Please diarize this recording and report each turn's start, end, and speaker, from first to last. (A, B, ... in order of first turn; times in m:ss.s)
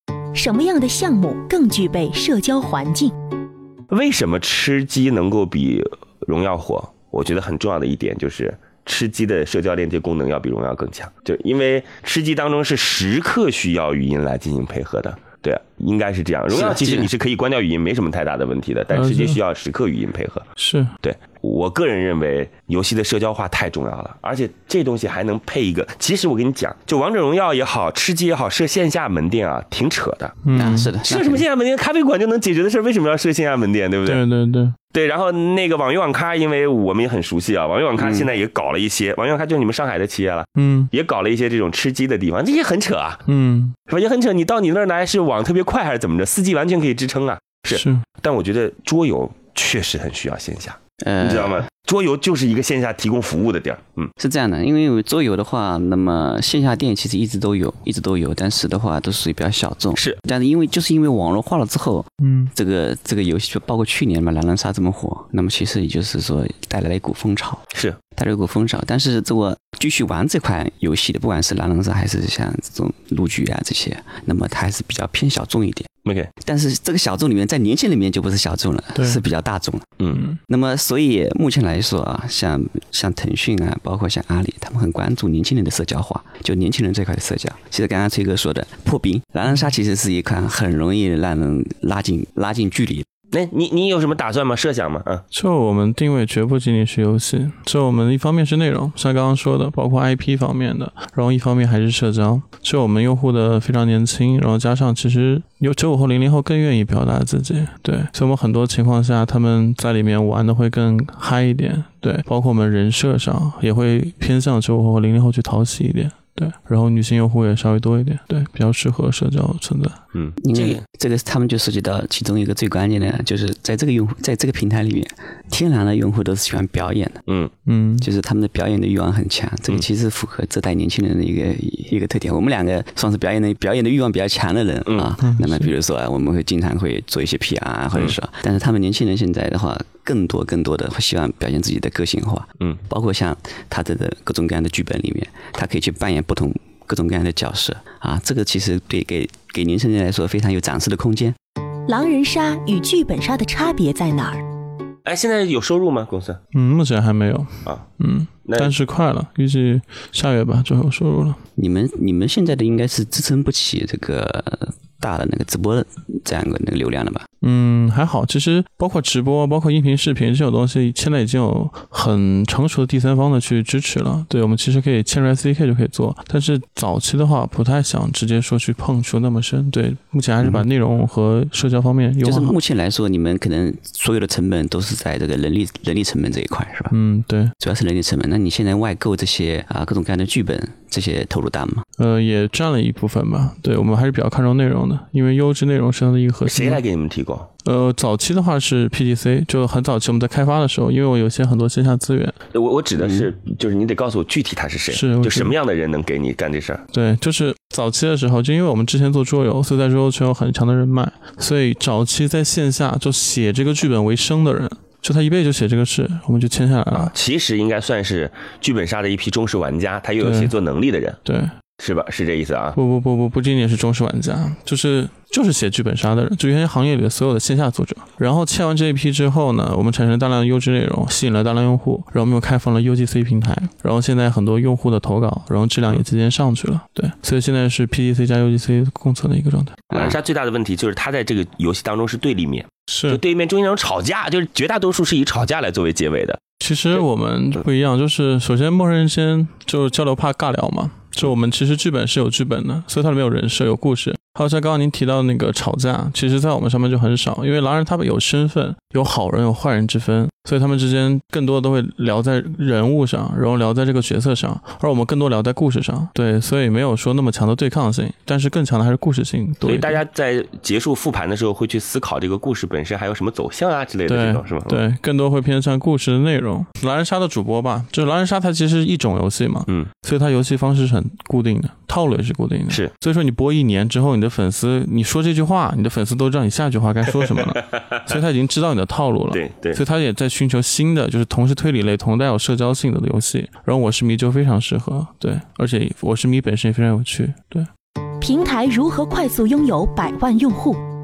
0:00.3-0:03.1 A
0:03.9-0:20.4 B
0:16.5-0:17.1 C
0:18.9-0:19.4 D
0:20.6-0:20.9 D
0:21.0-0:30.4 B
0:30.4-0:30.9 D
0:30.5-0:31.4 C
0:31.0-0:34.2 B
0:34.0-0:34.7 D
0:34.9-0:43.2 B
0:37.9-0:38.3 C
0:40.6-0:40.9 D
0:43.2-0:43.8 D
0:43.9-0:54.1 B
0:47.7-0:48.0 D
0:51.0-0:51.6 C
0:54.2-1:15.9 C
1:02.2-1:02.5 D
1:07.7-1:08.0 B
1:16.0-1:16.3 B
1:16.4-1:33.0 C
1:19.0-1:19.2 D
1:20.1-1:20.4 D
1:33.3-1:35.2 B
1:35.3-2:00.0 D
2:00.1-2:00.8 B
2:00.4-2:07.2 C
2:07.6-2:08.1 D
2:08.0-2:31.4 C
2:14.9-2:15.1 B
2:15.2-2:15.7 D
2:31.9-2:34.4 A
2:35.0-2:36.4 B
2:36.5-2:41.4 D
2:38.4-2:38.7 B
2:41.6-2:47.2 C
2:47.4-3:02.6 D
3:00.4-3:00.6 C
3:02.2-3:06.9 C
3:06.9-3:07.5 D
3:07.6-3:11.8 C
3:12.0-3:16.8 D
3:16.4-3:17.5 B
3:17.6-3:22.3 D
3:22.5-3:26.8 B
3:23.0-3:23.3 C
3:24.9-3:25.5 D
3:26.9-3:37.1 D
3:36.9-3:41.2 B
3:40.2-3:40.5 D
3:41.2-3:41.5 D
3:41.8-3:42.8 B
3:42.7-3:59.8 D
3:59.9-4:00.2 C
3:59.9-4:06.4 B
4:02.9-4:03.2 D
4:06.6-4:30.0 D
4:29.6-4:34.8 B
4:34.1-4:57.7 D
4:47.5-4:48.1 B
4:49.3-4:49.8 B
4:58.2-5:00.8 A